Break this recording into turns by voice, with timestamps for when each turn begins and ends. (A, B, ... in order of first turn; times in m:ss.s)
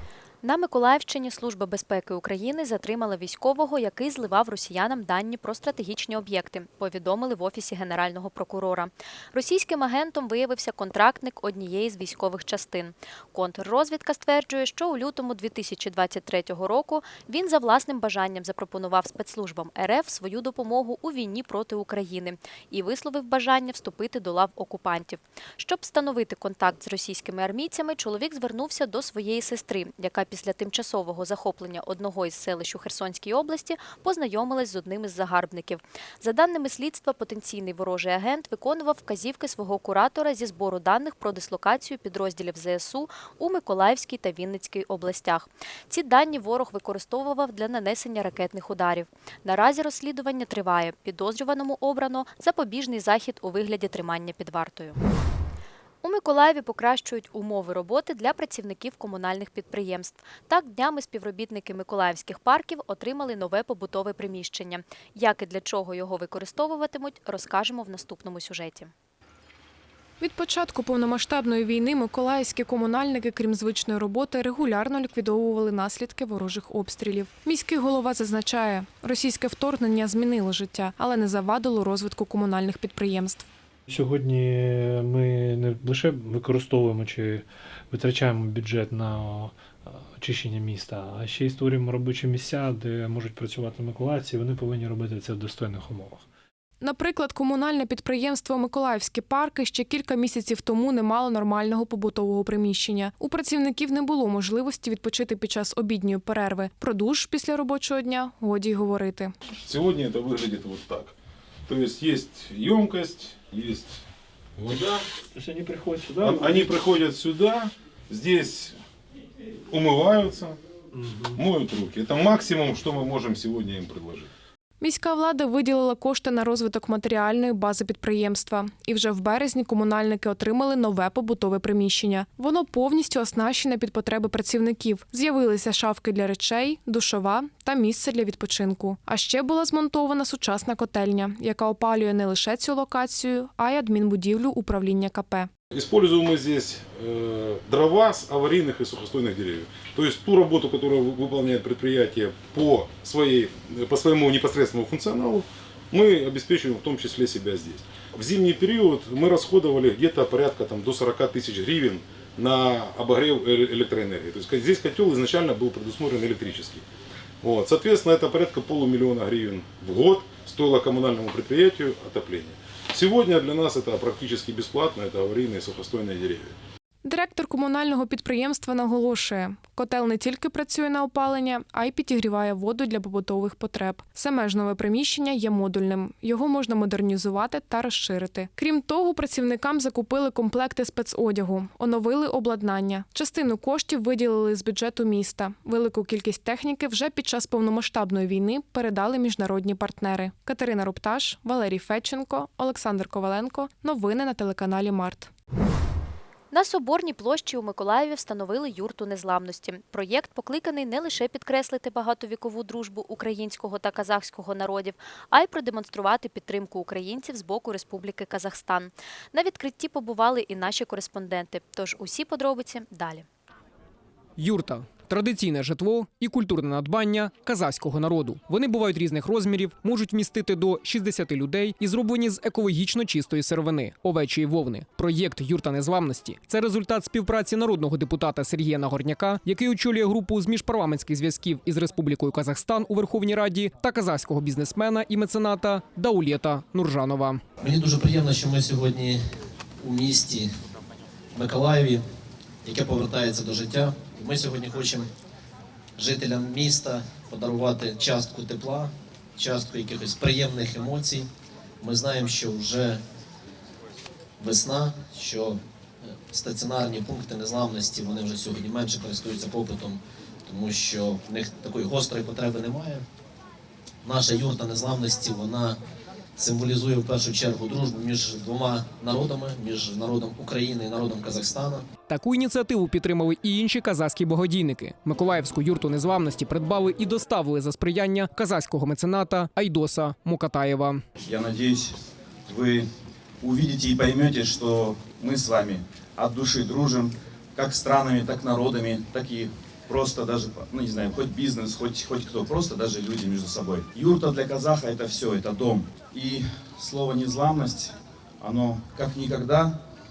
0:00.4-0:55.0 A
0:56.0-1:08.9 A
1:10.2-1:23.5 B
1:23.9-1:36.2 C
1:36.8-1:49.3 B
1:49.6-1:51.1 D
1:51.7-1:54.0 D
1:54.6-1:55.0 D
1:55.4-1:56.7 C
1:56.2-1:58.8 D
1:59.7-2:00.6 D
2:01.0-2:01.3 C
2:01.3-2:04.3 D
2:04.8-2:25.5 B
2:25.7-2:46.8 D
2:47.4-2:56.6 D
2:57.0-3:25.3 B
3:26.5-3:43.3 A
3:44.4-4:07.4 E
4:07.6-4:10.5 F
4:11.3-4:12.1 F
4:12.6-4:15.1 F
4:16.0-4:21.3 F
4:21.8-4:23.0 F
4:24.4-4:33.1 F
4:34.0-4:35.8 F
4:36.4-4:41.9 F
4:42.1-4:51.0 E
4:51.2-4:52.9 G
4:53.4-5:09.8 G